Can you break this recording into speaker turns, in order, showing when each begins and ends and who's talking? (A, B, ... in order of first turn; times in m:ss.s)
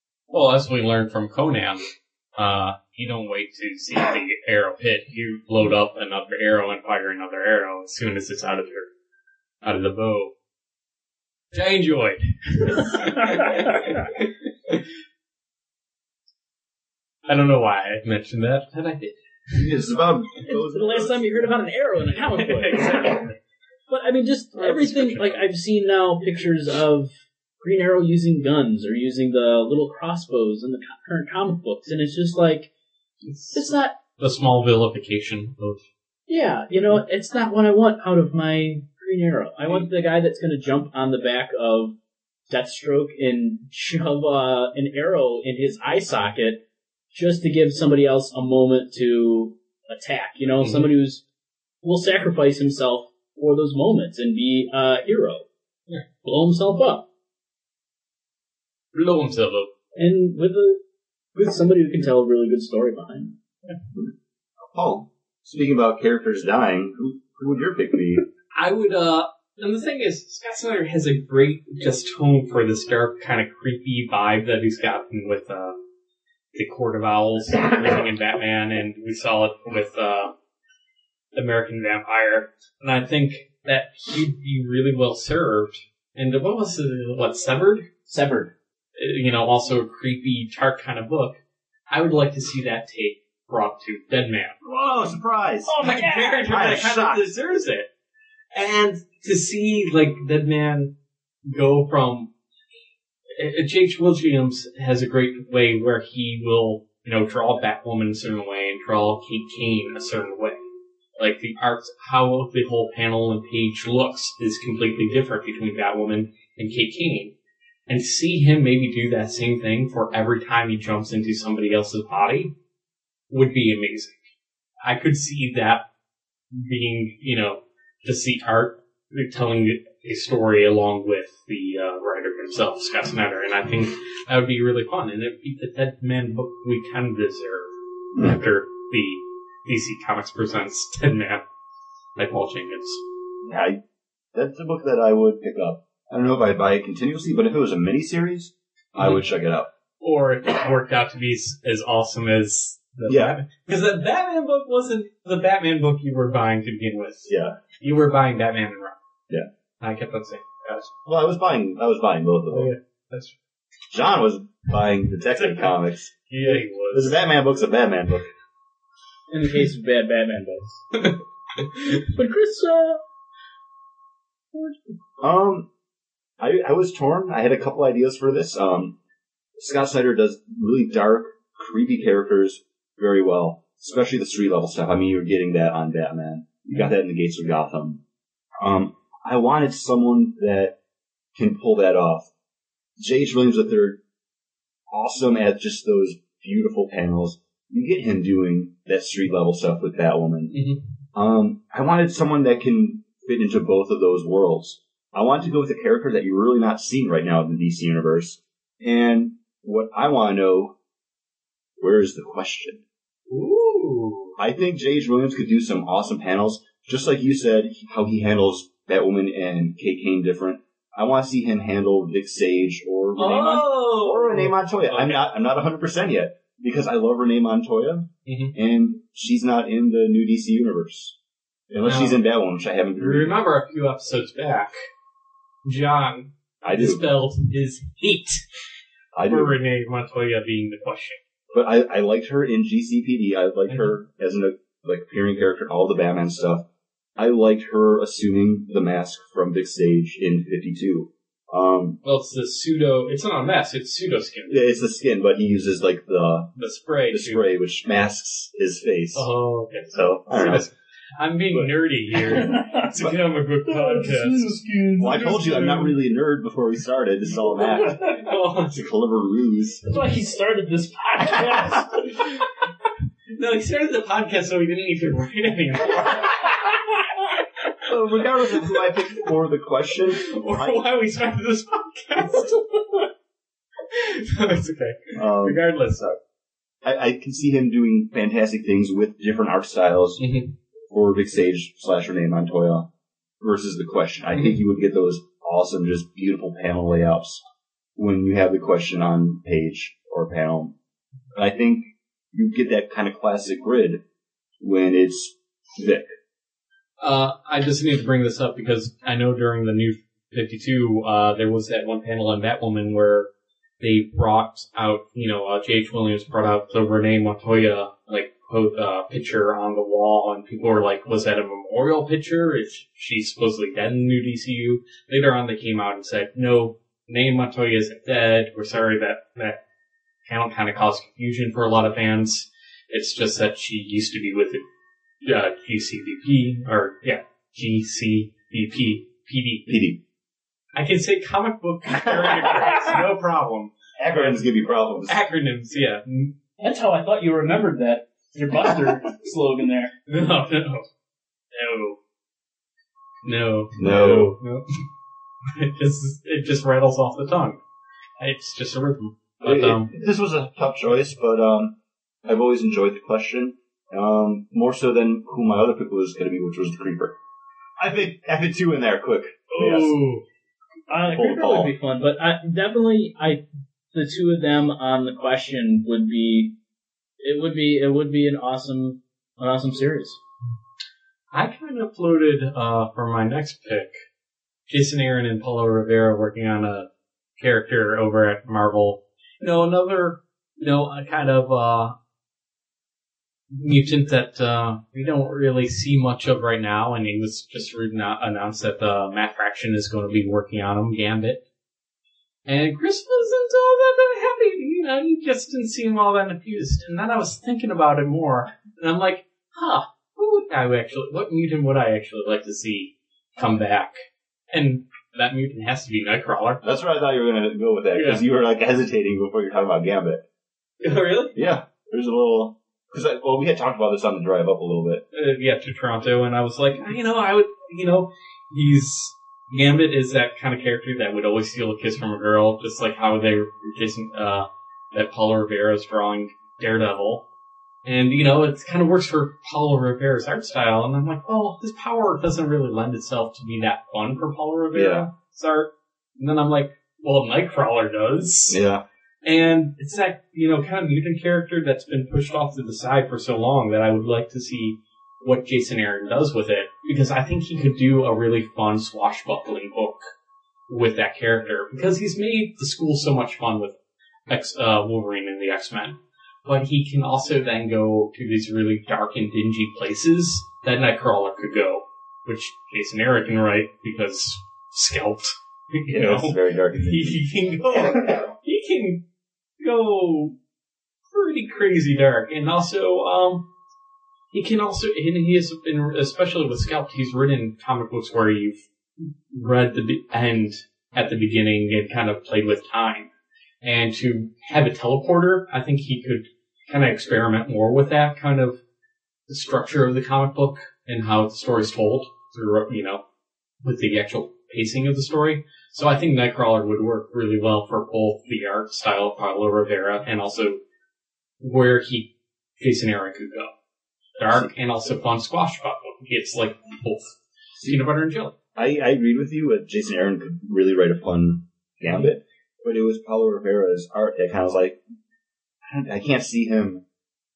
0:00.3-0:08.9 A
0:09.6-0:10.3 A
0:11.5-0:14.8 A
0:17.2-0:19.7 A
0:19.5-0:21.4 B
0:20.4-0:23.1 C
0:22.2-0:23.4 A
0:23.9-0:32.7 C
0:24.5-0:25.4 A
0:33.2-0:33.6 A
0:33.5-0:33.9 C
0:34.2-0:35.8 A
0:36.3-0:41.9 C
0:42.5-0:51.2 C
0:50.6-0:50.9 A
0:51.8-0:55.5 C
0:56.2-0:57.0 C
0:58.9-0:59.7 A
1:00.0-1:00.8 C
1:01.3-1:03.3 C
1:04.7-1:08.2 B
1:08.6-1:15.8 A
1:16.5-1:20.3 A
1:21.3-1:27.9 A
1:28.1-1:28.5 C
1:29.0-1:31.4 A
1:31.9-1:34.6 A
1:34.6-1:35.8 B
1:35.6-1:36.5 C
1:35.8-1:37.9 A
1:36.5-1:37.2 B
1:38.5-1:40.9 A
1:41.5-1:42.3 A
1:43.4-1:50.6 A
1:51.2-1:57.3 A
1:57.9-2:02.5 A
2:03.3-2:04.2 A
2:04.8-2:05.8 A
2:06.5-2:21.4 A
2:22.2-2:23.0 A
2:23.4-2:23.8 B
2:24.3-2:29.7 B
2:30.0-2:39.0 A
2:33.0-2:33.4 B
2:37.3-2:37.6 B
2:39.8-2:40.9 A
2:41.0-2:42.7 B
2:42.5-2:43.3 A
2:43.9-2:46.1 B
2:45.3-2:47.2 A
2:46.9-2:48.3 B
2:49.3-2:50.9 C
2:50.9-2:51.7 A
2:51.8-2:53.0 C
2:55.2-2:55.7 B
2:56.4-2:58.9 B
2:59.6-3:08.0 B
3:08.6-3:10.7 B
3:11.4-3:12.3 B
3:13.0-3:14.0 B
3:14.9-3:20.5 B
3:20.5-3:20.8 A
3:21.1-3:30.7 B
3:31.8-3:32.8 B
3:33.3-3:34.3 A
3:34.4-3:51.2 B
3:43.2-3:45.2 A
3:48.2-3:48.5 A
3:51.7-3:53.4 B
3:51.8-3:52.2 A
3:53.0-3:54.7 A
3:55.6-3:58.4 A
3:56.6-3:57.0 B
3:59.1-3:59.6 B
3:59.3-4:01.2 A
4:01.5-4:06.6 B
4:03.7-4:03.9 A
4:07.2-4:12.0 B
4:12.0-4:14.6 A
4:14.5-4:16.5 B
4:16.6-4:17.4 A
4:17.1-4:19.3 B
4:19.1-4:24.5 A
4:19.9-4:20.7 B
4:22.2-4:22.9 C
4:23.6-4:25.9 C
4:25.0-4:28.0 B
4:27.5-4:28.2 C
4:28.0-4:28.8 A
4:28.7-4:29.8 B
4:29.8-4:32.0 C
4:33.3-4:36.8 A
4:37.8-4:40.8 B
4:40.1-4:43.1 A
4:43.9-4:46.1 A
4:45.1-4:45.6 B
4:46.8-4:50.2 B
4:50.2-4:50.5 A
4:50.9-4:52.9 B
4:53.4-4:57.4 B
4:58.0-5:00.7 B
5:01.3-5:04.0 B
5:04.6-5:06.1 B
5:07.0-5:13.3 A
5:13.8-5:29.6 A
5:30.2-5:34.6 A
5:35.2-5:39.7 A
5:39.7-5:40.0 B
5:40.7-5:44.4 A
5:44.0-5:45.2 B
5:45.0-5:46.3 A
5:46.6-5:49.9 C
5:50.1-5:50.8 A
5:51.5-5:52.0 A
5:53.2-5:54.6 A
5:53.8-5:54.3 B
5:55.5-5:57.6 A
5:58.2-5:59.9 A
5:59.4-6:01.7 B
6:02.2-6:07.1 B
6:07.8-6:10.0 B
6:09.5-6:10.2 A
6:10.9-6:13.4 C
6:11.0-6:11.7 B
6:13.9-6:16.5 C
6:17.2-6:20.2 C
6:21.3-6:23.9 A
6:24.7-6:26.9 A
6:27.4-6:31.9 A
6:33.5-6:41.4 A
6:42.4-6:53.9 A
6:54.5-6:56.6 A
6:56.6-7:00.2 B
6:57.9-6:58.2 A
7:00.8-7:01.3 A
7:01.3-7:05.0 B
7:05.1-7:17.2 A
7:17.8-7:28.6 A
7:24.7-7:25.1 B
7:28.5-7:28.8 B
7:29.2-7:40.0 A
7:40.7-7:43.8 A
7:44.3-7:59.0 A
7:55.9-7:58.3 B
7:59.6-8:00.3 A
8:01.1-8:03.4 A
8:04.3-8:08.6 A
8:09.3-8:13.1 A
8:13.6-8:18.6 A
8:19.3-8:23.0 A
8:23.6-8:30.6 A
8:31.4-8:33.5 A
8:34.2-8:38.3 A
8:37.6-8:37.8 B
8:38.6-8:44.8 B
8:45.7-8:46.8 B